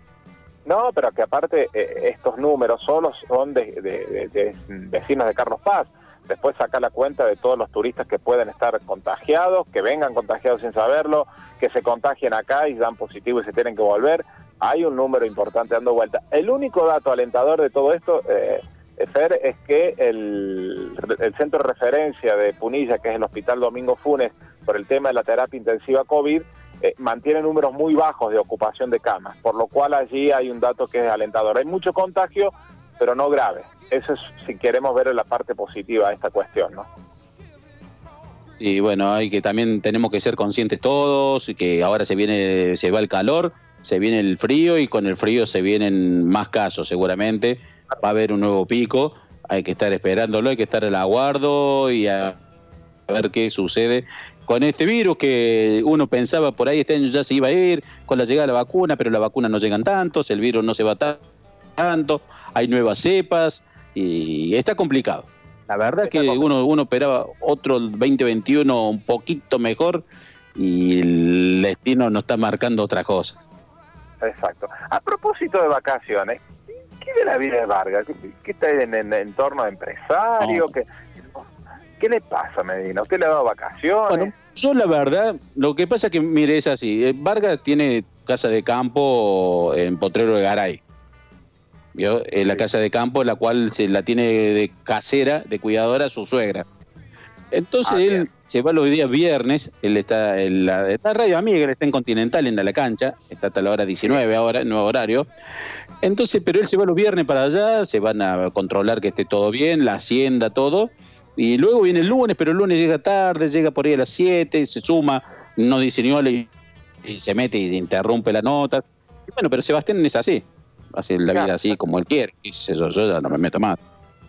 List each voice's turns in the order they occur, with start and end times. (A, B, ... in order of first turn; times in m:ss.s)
0:00.6-0:36.9 A
0:38.6-0:52.4 B
0:53.1-1:01.2 B
1:01.8-1:10.0 B
1:06.0-1:06.5 A
1:10.6-1:13.4 B
1:14.2-1:21.5 A
1:22.0-1:24.3 A
1:24.1-1:30.8 B
1:32.0-1:36.6 B
1:37.5-1:45.3 B
1:37.8-1:38.3 A
1:46.0-1:56.5 B
1:57.0-2:03.8 B
2:01.3-2:01.6 A